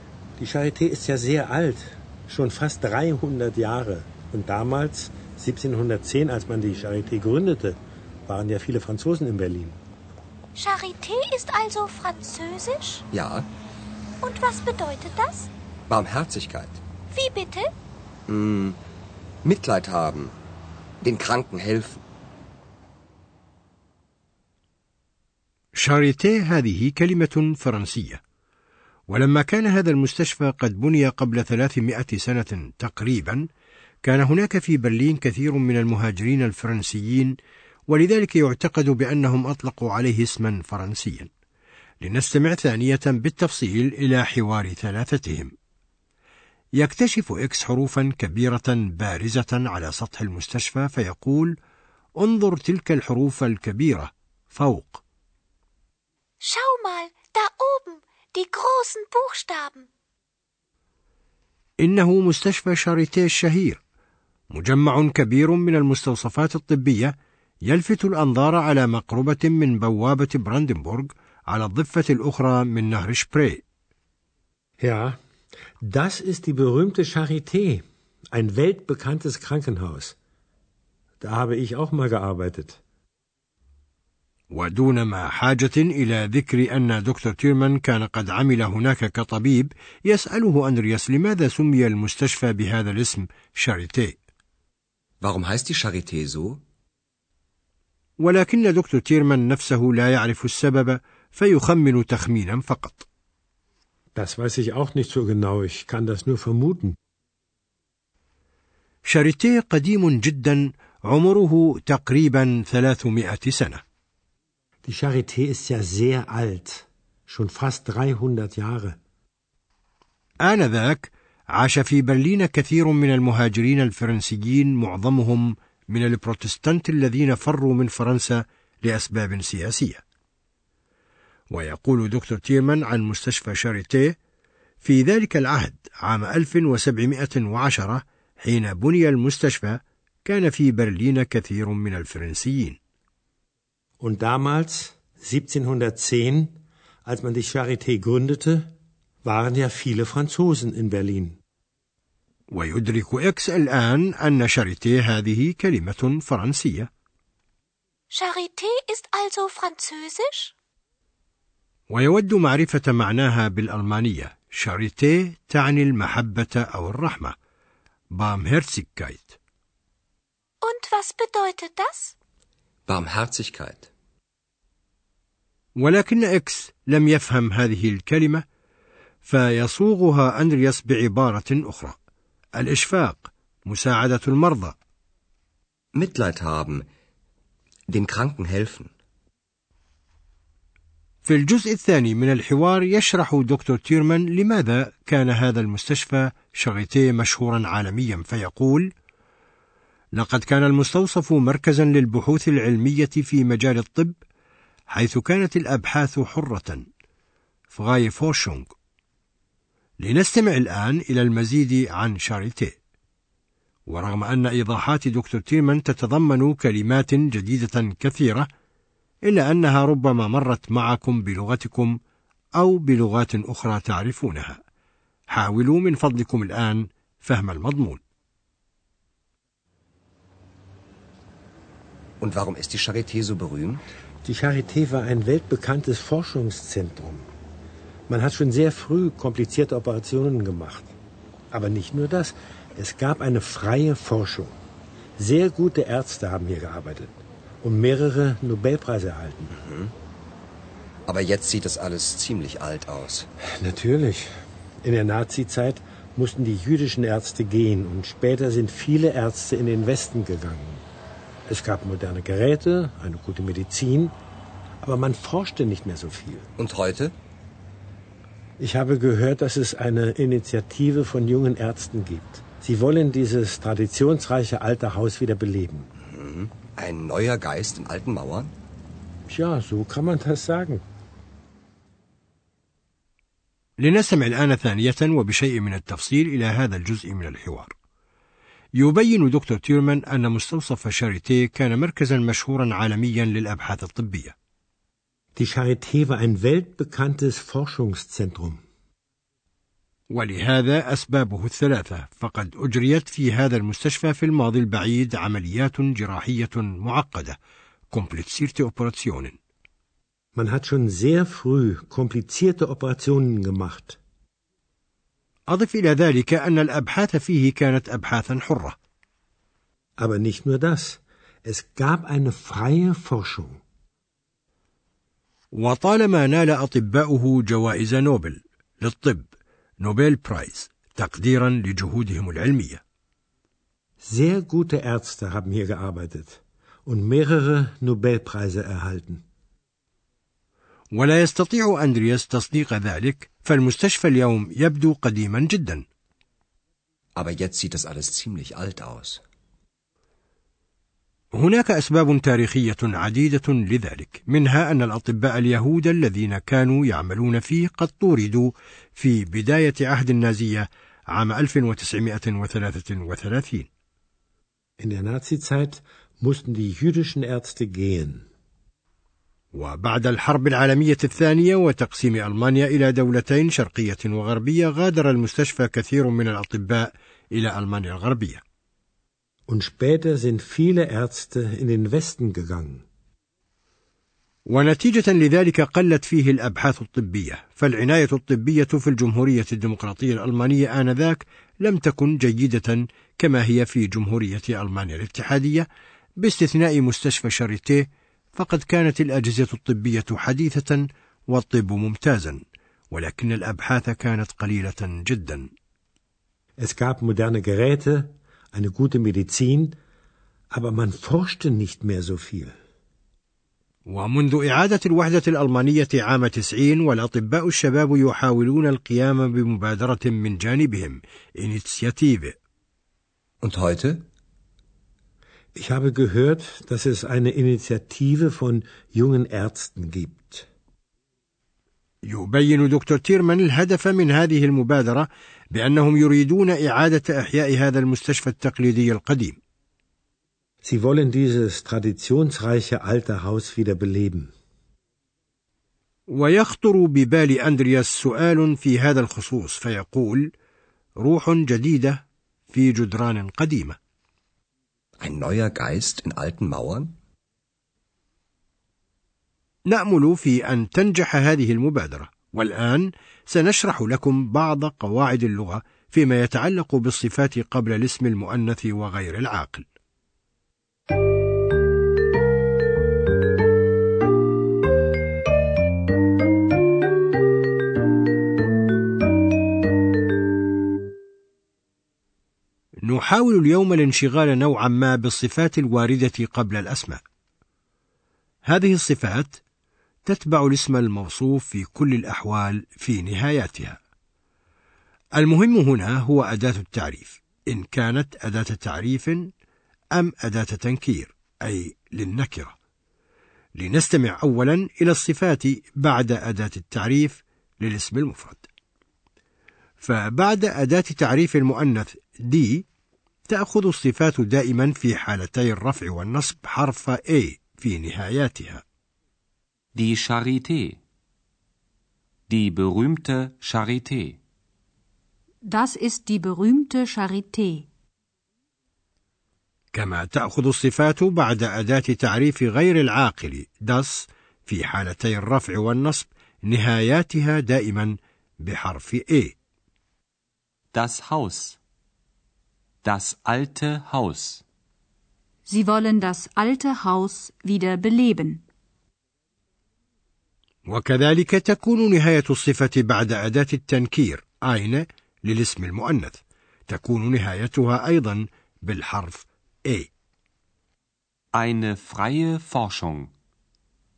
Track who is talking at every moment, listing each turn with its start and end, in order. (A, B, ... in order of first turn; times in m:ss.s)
0:00.4-0:09.8 A
0:10.6-0:13.0 B
0:13.1-0:13.5 C
0:14.2-0:15.5 B
0:15.9-0:16.8 C
0:17.1-0:17.7 B
0:18.3-0:18.8 C
0:19.4-0:20.3 C
0:21.0-0:22.0 C
0:25.7-0:28.2 D
0:29.1-0:33.5 D
0:34.0-0:37.4 D
0:37.9-0:41.3 D
0:42.0-0:45.5 D
0:46.8-0:51.6 D
0:52.2-0:55.0 D
0:56.4-0:59.8 B
1:01.8-1:03.8 D
1:04.5-1:13.6 D
1:14.8-1:15.2 A
1:15.8-1:20.2 A
1:21.2-1:22.8 A
1:24.5-1:34.2 D
1:35.2-1:36.6 C
1:38.2-1:43.1 D
1:44.1-1:47.0 A
1:49.0-1:53.8 D
1:54.8-1:59.0 A
2:00.4-2:10.0 D
2:11.5-2:14.2 D
2:14.8-2:22.8 D
2:24.0-2:28.7 A
2:29.2-2:31.4 A
2:32.5-2:36.9 D
2:38.1-2:40.5 B
2:41.9-2:47.3 D
2:48.1-2:49.4 D
2:50.6-2:52.1 B
2:52.9-2:53.9 C
2:55.8-2:58.4 D
2:59.2-3:02.0 D
3:02.6-3:04.8 D
3:05.9-3:06.8 C
3:07.9-3:08.9 C
3:11.2-3:18.9 D
3:20.1-3:24.2 D
3:24.9-3:26.8 D
3:27.7-3:28.7 D
3:30.0-3:32.8 D
3:33.9-3:38.5 D
3:39.2-3:42.0 D
3:42.6-3:44.6 D
3:45.3-3:48.0 D
3:52.2-3:53.8 C
3:54.2-3:57.3 A
3:58.1-4:00.9 A
4:01.5-4:04.5 A
4:05.2-4:09.5 A
4:09.5-4:09.9 C
4:11.1-4:13.3 C
4:13.6-4:20.8 A
4:21.5-4:24.1 A
4:24.8-4:26.5 A
4:26.6-4:27.1 C
4:28.6-4:35.9 A
4:36.0-4:38.5 C
4:39.3-4:40.8 A
4:43.8-4:47.7 D
4:48.8-4:54.3 D
4:55.4-4:58.6 A
5:00.1-5:07.4 D
5:07.9-5:09.4 D
5:10.3-5:14.0 A
5:15.5-5:18.8 D
5:20.0-5:23.6 A
5:25.5-5:32.8 D
5:34.0-5:39.2 A
5:40.9-5:45.8 D
5:47.1-5:49.2 C
5:51.3-6:03.7 D
6:04.8-6:08.3 A
6:09.5-6:18.4 D
6:19.5-6:22.8 A
6:24.5-6:35.7 D
6:36.2-6:45.5 D
6:46.6-6:49.8 A
6:50.5-6:52.5 A
6:53.8-7:02.4 D
7:03.4-7:04.0 C
7:05.5-7:10.5 A
7:12.0-7:19.4 D
7:20.6-7:24.3 A
7:26.1-7:30.3 D
7:31.0-7:33.8 D
7:35.0-7:36.9 C
7:39.7-7:49.6 D
8:02.8-8:07.0 D
8:08.4-8:09.4 D
8:10.0-8:13.8 D
8:15.2-8:19.3 D
8:19.9-8:22.6 D
8:23.6-8:28.5 D
8:29.8-8:32.6 D
8:33.3-8:38.6 D
8:39.7-8:40.8 E
8:42.3-8:44.2 E
8:45.4-8:47.7 F
8:49.7-8:59.3 D
9:00.7-9:01.6 E
9:02.8-9:04.4 E
9:05.5-9:08.4 F
9:10.6-9:19.9 D
9:21.3-9:23.1 E